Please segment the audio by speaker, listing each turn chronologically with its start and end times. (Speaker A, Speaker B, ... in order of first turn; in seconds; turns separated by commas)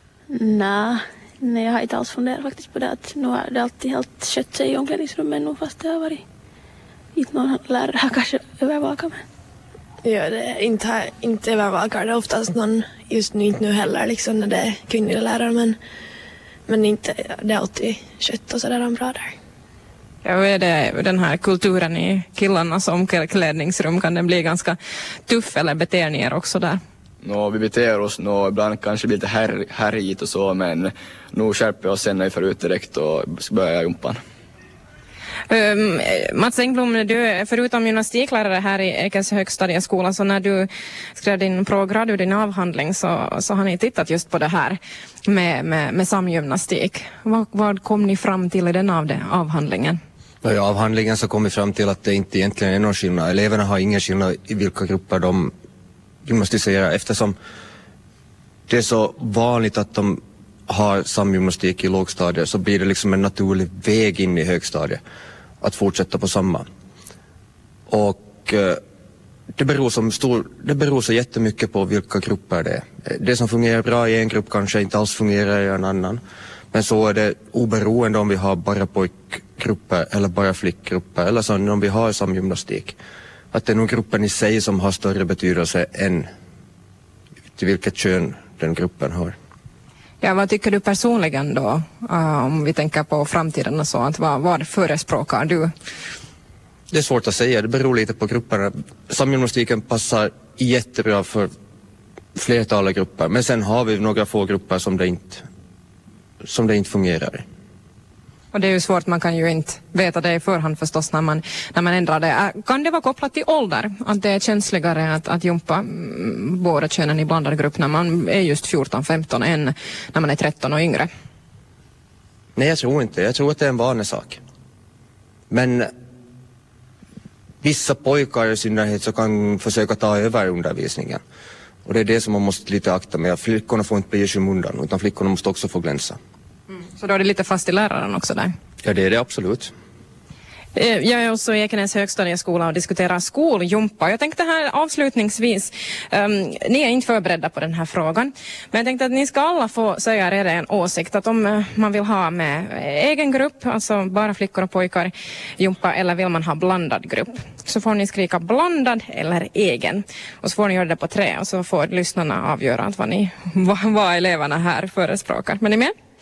Speaker A: 0.3-6.2, Speaker A: 7.2-9.2, Speaker B: 10.0-15.8, Speaker B: 16.7-19.3, Speaker C: 20.2-24.8, Speaker C: 25.3-26.8, Speaker D: 27.2-34.2, Speaker C: 35.5-50.0, Speaker E: 50.4-55.5, Speaker E: 56.2-57.4, Speaker E: 58.7-65.0, Speaker E: 65.6-66.7, Speaker E: 67.9-68.8, Speaker E: 69.6-76.2, Speaker E: 76.7-83.0, Speaker E: 83.5-86.3, Speaker E: 87.6-89.4, Speaker C: 90.2-95.7, Speaker E: 96.9-101.5, Speaker E: 102.3-105.5, Speaker E: 106.5-107.5, Speaker C: 108.5-121.1, Speaker E: 122.6-124.4, Speaker E: 125.5-125.9, Speaker E: 127.6-131.2, Speaker E: 131.9-136.2, Speaker C: 136.9-138.5, Speaker E: 138.8-139.7, Speaker C: 140.8-165.9